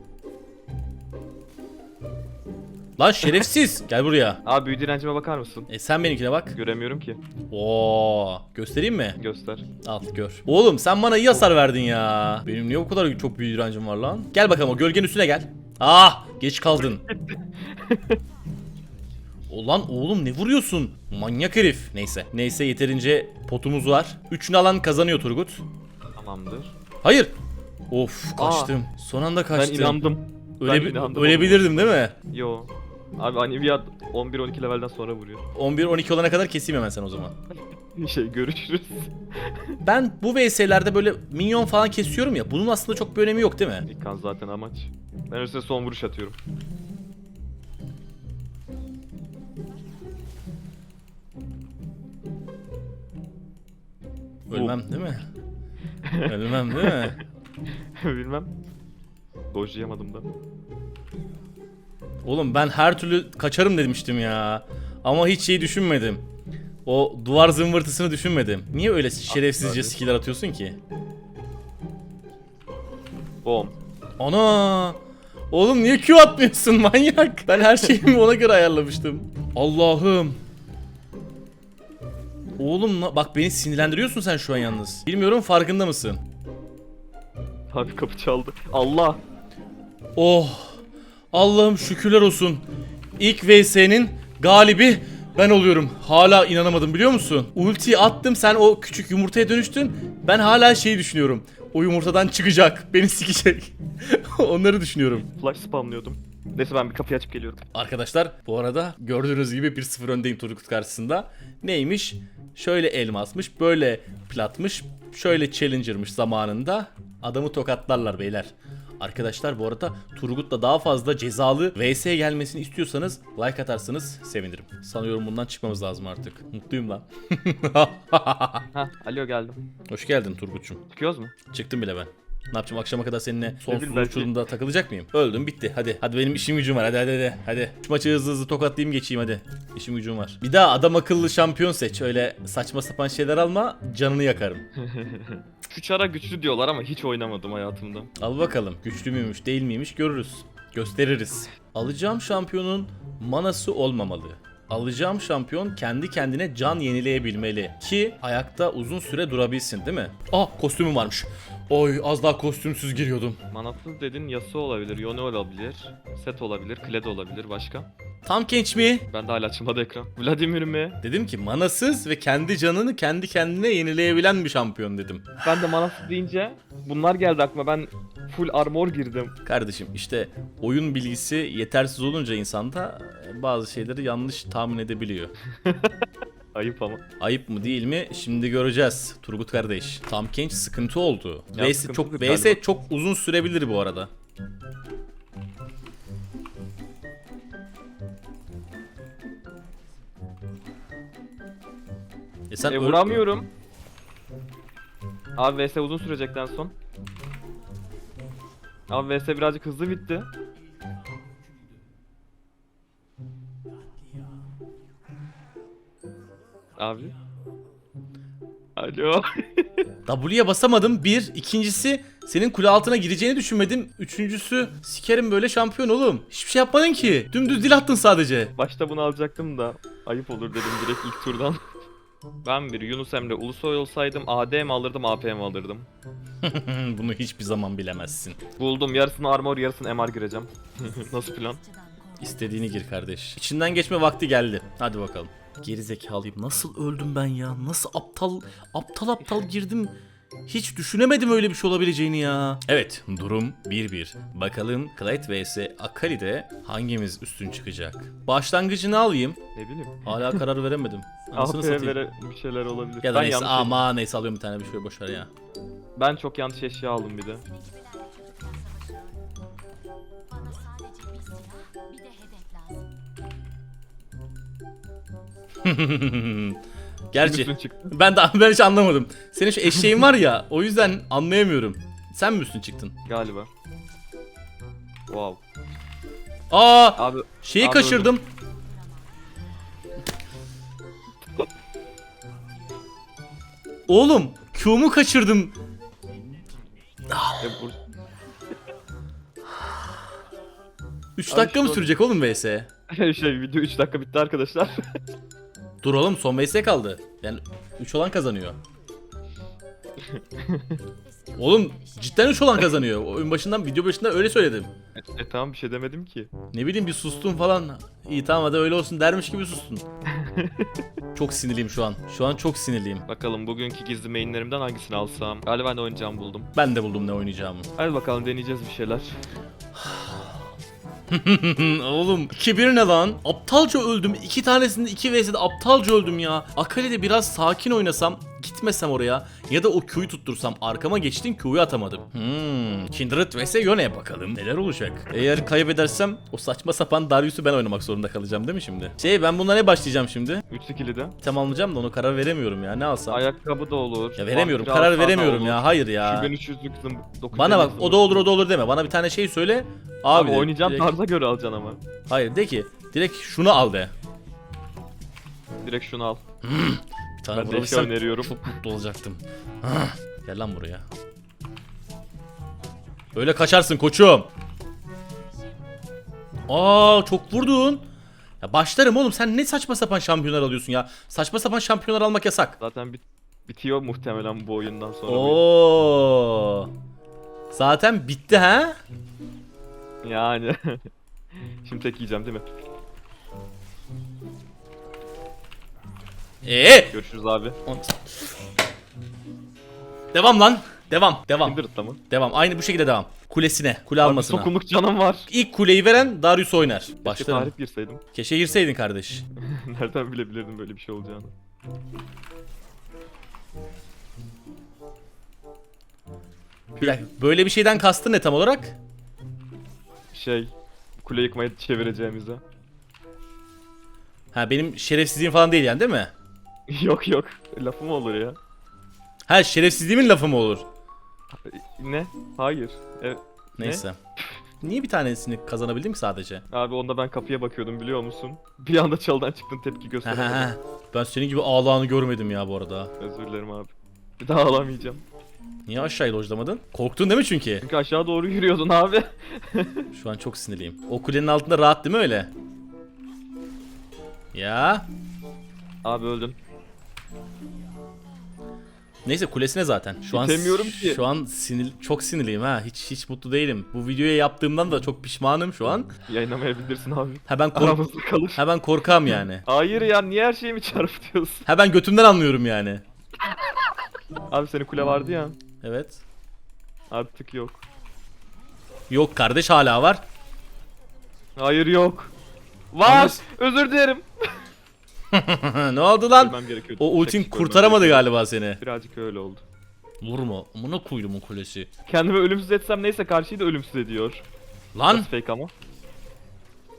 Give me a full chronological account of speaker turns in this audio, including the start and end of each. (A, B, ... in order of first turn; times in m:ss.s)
0:03.0-0:04.4 A
0:04.4-0:05.7 B
0:05.7-0:06.6 A
0:06.5-0:07.2 B
0:07.5-0:09.2 A
0:09.2-0:09.7 B
0:09.8-0:17.0 A
0:16.8-0:18.2 B
0:19.5-0:25.6 A
0:26.2-0:26.7 B
0:27.0-0:27.3 A
0:27.9-0:30.0 A
0:28.4-0:28.7 B
0:29.5-0:31.7 B
0:30.6-0:32.1 A
0:32.3-0:35.5 B
0:35.5-0:37.3 A
0:38.0-0:39.7 B
0:39.8-0:43.8 A
0:43.9-0:46.4 B
0:54.5-0:55.3 A
0:56.0-0:57.2 B
0:56.2-0:57.2 A
0:58.0-0:58.5 B
0:59.5-1:00.3 B
1:02.2-1:06.2 A
1:06.8-1:10.8 A
1:09.3-1:10.0 B
1:13.4-1:13.7 B
1:14.2-1:15.0 A
1:15.5-1:20.4 A
1:22.6-1:26.2 A
1:27.7-1:29.2 B
1:30.2-1:30.8 A
1:31.3-1:32.6 A
1:33.2-1:45.3 A
1:45.3-1:47.7 B
1:47.7-2:08.6 A
2:08.7-2:09.6 B
2:09.9-2:10.8 A
2:10.9-2:11.3 B
2:11.5-2:24.6 A
2:13.6-2:14.3 B
2:24.8-2:28.1 B
2:28.2-2:43.4 A
2:43.5-2:47.9 B
2:48.2-2:49.1 A
2:49.1-2:51.0 B
2:51.0-2:55.4 A
2:55.4-2:59.4 B
2:59.4-3:05.3 A
3:05.6-3:06.0 B
3:06.5-3:07.0 B
3:07.2-3:14.1 A
3:11.5-3:12.6 B
3:22.5-3:23.2 A
3:22.6-3:23.5 B
3:25.4-3:26.7 B
3:28.9-3:30.3 B
3:36.8-3:37.2 B
3:38.8-3:39.8 B
3:40.0-3:48.5 A
3:48.6-3:51.6 B
3:52.4-3:55.9 B
3:56.4-3:58.4 A
3:58.6-4:01.6 B
4:01.8-4:02.2 C
4:02.2-4:19.4 A
4:19.5-4:20.4 B
4:20.0-4:22.0 A
4:21.3-4:23.8 B
4:23.0-4:25.3 A
4:26.0-4:27.5 B
4:27.6-4:29.2 C
4:30.3-4:32.9 C
4:35.6-4:36.6 A
4:37.1-4:42.9 A
4:37.2-4:37.9 B
4:43.0-4:43.5 B
4:45.1-4:45.4 B
4:46.5-4:48.2 A
4:47.0-4:48.1 B
4:53.9-4:55.6 A
4:57.1-4:57.4 A
4:57.4-4:57.8 B
5:01.2-5:02.7 A
5:01.3-5:01.9 B
5:02.9-5:04.9 B
5:05.8-5:08.6 A
5:10.1-5:10.8 B
5:11.1-5:11.4 C
5:11.4-5:14.7 A
5:15.0-5:16.3 B
5:16.5-5:19.8 A
5:20.1-5:20.7 B
5:21.1-5:23.0 A
5:23.1-5:26.5 B
5:26.5-5:27.7 A
5:27.8-5:29.2 B
5:29.8-5:30.2 A
5:31.1-5:50.4 A
5:50.5-5:51.2 B
5:51.2-5:53.2 A
5:53.1-5:58.2 B
5:54.2-5:56.3 A
5:57.3-6:00.9 A
6:00.1-6:01.8 B
6:02.1-6:03.9 A
6:05.6-6:06.2 B
6:06.4-6:10.8 A
6:07.3-6:08.5 B
6:13.1-6:14.3 A
6:16.5-6:17.9 A
6:18.4-6:22.6 A
6:22.6-6:25.4 B
6:25.1-6:26.7 A
6:27.5-6:28.8 A
6:30.0-6:30.9 B
6:31.6-6:32.4 B
6:36.4-6:36.9 A
6:36.9-6:37.6 B
6:37.7-6:38.0 A
6:40.1-6:44.5 A
6:41.4-6:42.0 B
6:44.0-6:45.3 B
6:45.3-6:47.5 A
6:47.0-6:48.0 B
6:48.1-6:49.2 A
6:49.4-6:51.3 B
6:56.7-6:57.0 B
6:56.8-6:58.8 A
7:00.1-7:02.4 B
7:04.3-7:06.1 A
7:06.7-7:08.4 B
7:09.3-7:10.6 A
7:11.3-7:13.8 B
7:13.6-7:14.0 A
7:14.6-7:16.4 A
7:16.5-7:20.5 B
7:20.0-7:22.9 A
7:23.0-7:25.0 B
7:25.7-7:27.6 A
7:27.6-7:29.9 B
7:29.9-7:32.3 A
7:34.3-7:34.9 A
7:35.8-7:36.4 B
7:39.0-7:45.9 A
7:40.1-7:41.0 B
7:46.1-7:48.4 B
7:47.3-7:47.8 A
7:48.3-7:49.4 A
7:49.4-7:51.5 B
7:51.4-7:52.8 A
7:54.3-7:55.4 B
7:55.6-7:56.0 A
7:56.9-7:57.6 B
7:58.9-8:00.0 A
8:01.4-8:02.1 B
8:02.7-8:04.5 B
8:02.8-8:03.2 A
8:05.1-8:08.6 A
8:06.2-8:09.4 B
8:10.0-8:11.7 A
8:11.9-8:14.2 B
8:14.7-8:15.1 A
8:14.9-8:15.5 B